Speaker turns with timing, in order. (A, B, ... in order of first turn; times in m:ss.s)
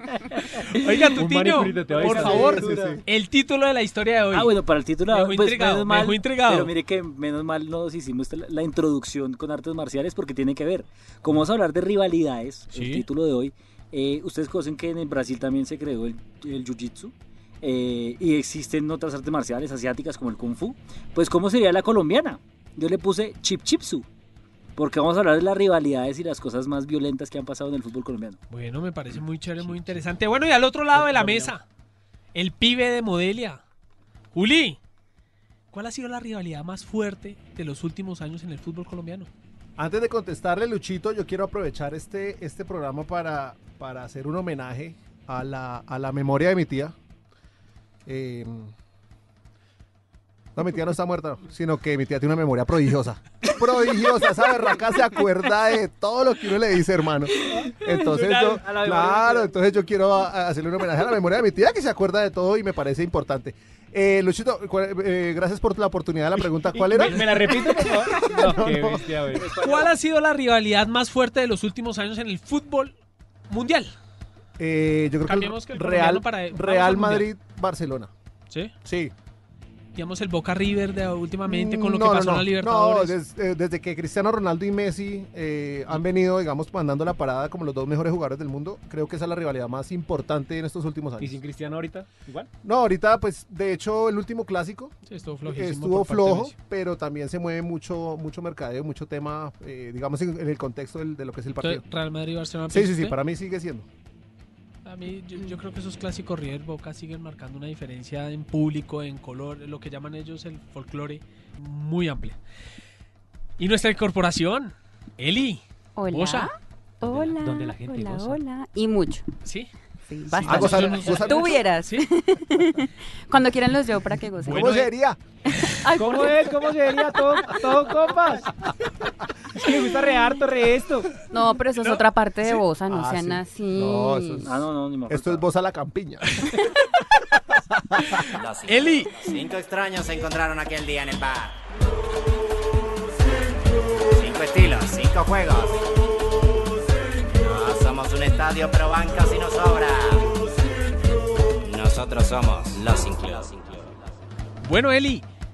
0:00.3-0:00.9 A
0:00.6-0:06.7 B
0:01.2-0:03.0 C
0:02.0-0:03.0 A
0:02.0-0:03.0 D
0:04.3-0:24.0 A
0:12.7-0:13.0 B
0:24.8-0:28.4 A
0:28.5-0:31.6 B
0:29.6-0:30.0 C
0:30.9-0:31.5 C
0:32.3-0:33.6 B
0:34.3-0:34.8 B
0:35.7-0:39.3 B
0:39.8-0:46.9 D
0:48.0-0:48.7 D
0:50.6-1:07.3 D
0:57.6-0:59.5 A
1:06.7-1:09.5 C
1:07.5-1:07.9 A
1:08.3-1:09.0 D
1:09.3-1:09.9 A
1:09.6-1:12.9 B
1:13.5-1:13.9 B
1:14.6-1:18.1 D
1:15.2-1:17.3 B
1:18.8-1:19.1 D
1:19.9-1:23.2 B
1:21.5-1:31.4 D
1:31.2-1:32.5 C
1:32.6-1:34.9 D
1:35.1-1:36.5 B
1:35.4-1:41.8 D
1:41.6-1:43.1 B
1:42.7-1:43.8 D
1:44.8-1:52.4 B
1:53.6-1:56.5 B
1:56.0-1:59.2 E
1:57.0-1:58.4 C
1:59.4-1:59.7 B
2:00.1-2:04.8 E
2:00.3-2:02.1 B
2:00.4-2:01.6 D
2:04.4-2:04.9 B
2:04.5-2:05.2 D
2:05.5-2:06.6 E
2:06.0-2:08.5 C
2:09.6-2:11.1 C
2:11.3-2:14.5 E
2:12.8-2:16.4 D
2:14.4-2:15.4 A
2:17.7-2:18.2 D
2:18.3-2:21.6 F
2:18.7-2:19.1 B
2:24.1-2:25.8 F
2:27.3-2:30.3 F
2:31.6-2:34.0 F
2:34.6-2:35.2 B